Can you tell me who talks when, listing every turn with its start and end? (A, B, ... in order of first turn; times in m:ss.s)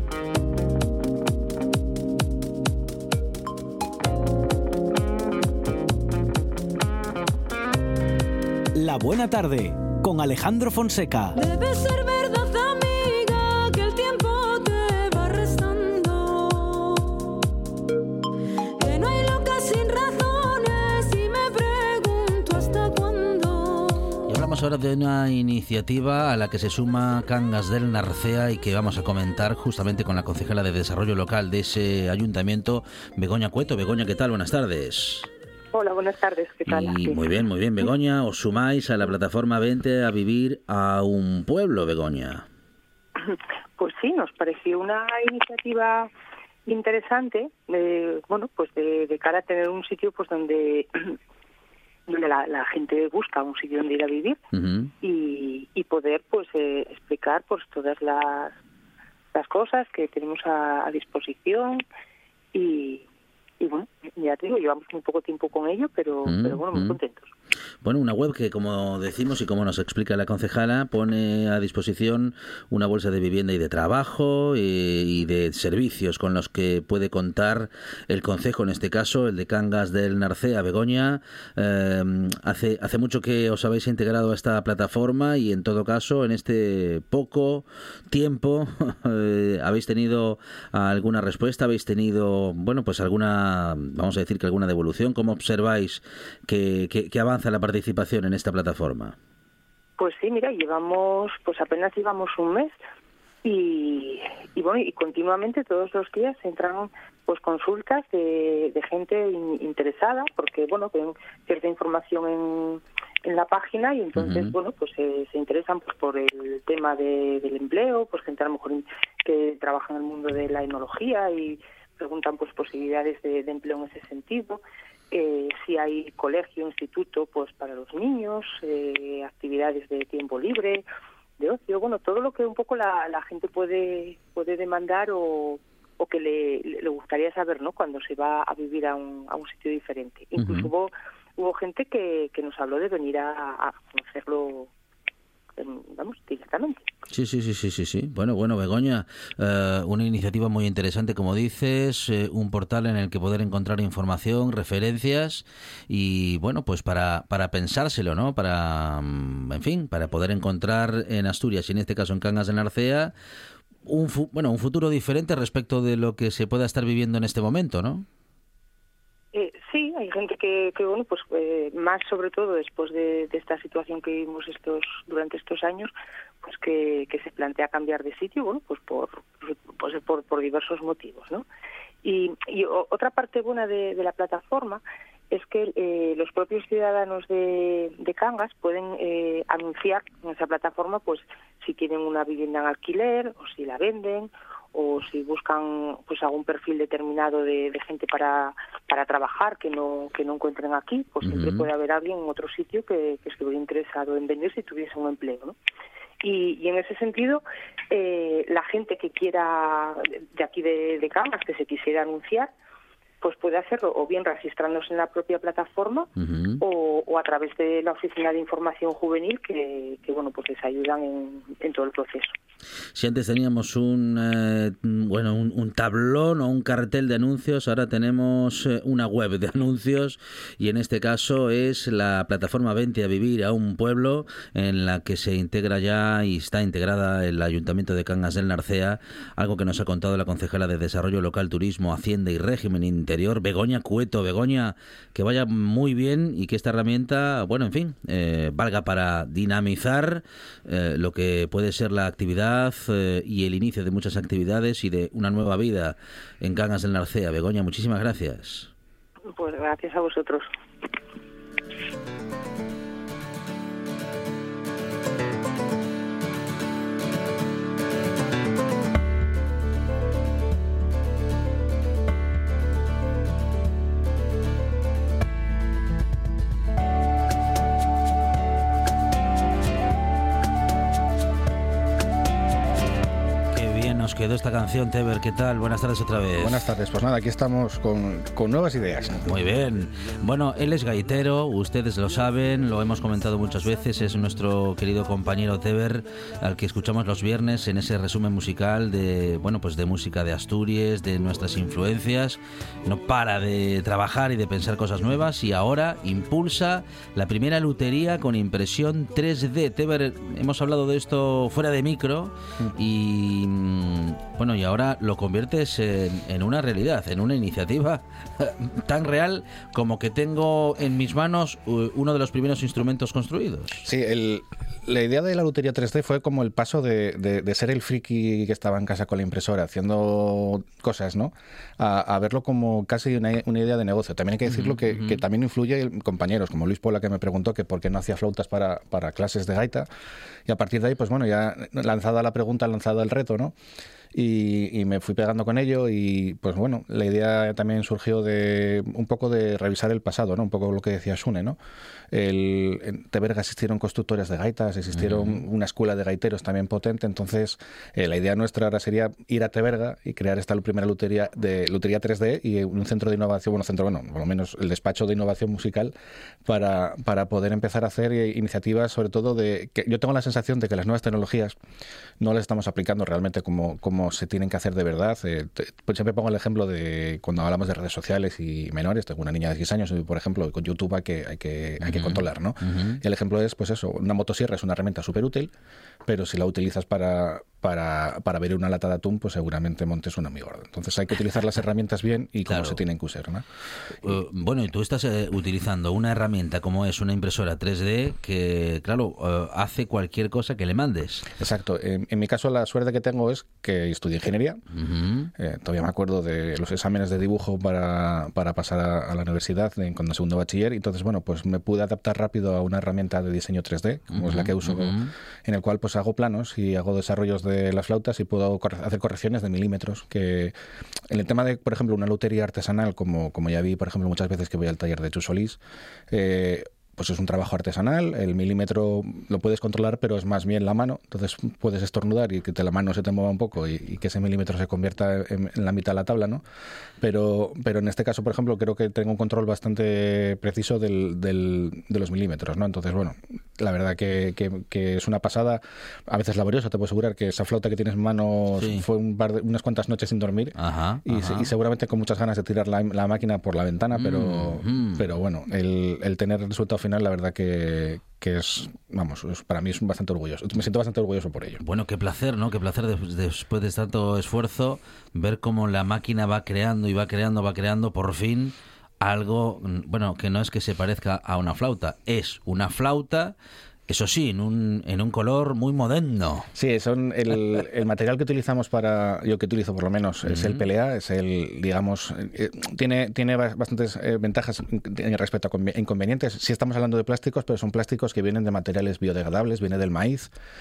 0:08.8-0:11.4 A
0:11.3-0:17.4 B
0:18.8-0:24.3 B
0:24.3-0:35.3 C
0:35.7-0:37.3 D
0:36.7-0:42.4 C
0:43.2-0:46.1 D
0:46.7-0:51.2 D
0:52.1-0:54.4 D
0:54.5-0:54.9 C
0:55.0-0:58.6 D
0:59.3-1:01.8 D
1:02.5-1:03.0 D
1:03.6-1:07.3 D
1:06.2-1:07.0 C
1:07.8-1:39.2 C
1:40.0-1:42.8 D
1:43.4-2:10.8 D
1:54.2-1:54.5 C
2:11.4-2:24.7 D
2:20.4-2:20.7 C
2:25.6-2:26.9 D
2:27.1-2:43.1 C
2:43.8-2:48.0 C
2:49.3-2:55.9 D
2:56.4-3:01.4 D
3:02.0-3:25.6 D
3:21.2-3:21.7 C
3:26.2-3:32.5 D
3:33.2-3:36.1 D
3:36.2-3:36.6 C
3:36.6-3:42.3 D
3:43.0-4:18.7 C
4:19.3-4:20.5 D
4:43.5-4:46.6 C
4:46.4-4:49.2 E
4:49.2-5:23.8 C
5:23.8-5:39.9 E
5:34.5-5:35.2 C
5:40.5-5:43.5 E
5:44.1-5:51.6 E
5:52.1-6:05.9 E
5:55.0-5:55.3 C
6:06.5-6:11.6 E
6:12.2-6:25.5 E
6:21.8-6:23.0 C
6:26.1-6:33.4 E
6:32.5-6:32.8 C
6:34.0-6:41.3 C
6:41.4-6:44.6 E
6:44.7-6:45.3 C
6:45.4-7:00.5 E
6:54.1-6:55.1 C
7:01.1-7:05.6 E
7:06.1-7:16.4 E
7:17.0-7:30.6 E
7:28.6-7:28.8 C
7:30.6-7:31.5 C
7:31.1-7:41.6 E
7:33.9-7:35.1 C
7:41.6-7:53.4 C
7:53.9-7:56.5 C
7:56.6-8:10.3 E
8:00.3-8:00.6 C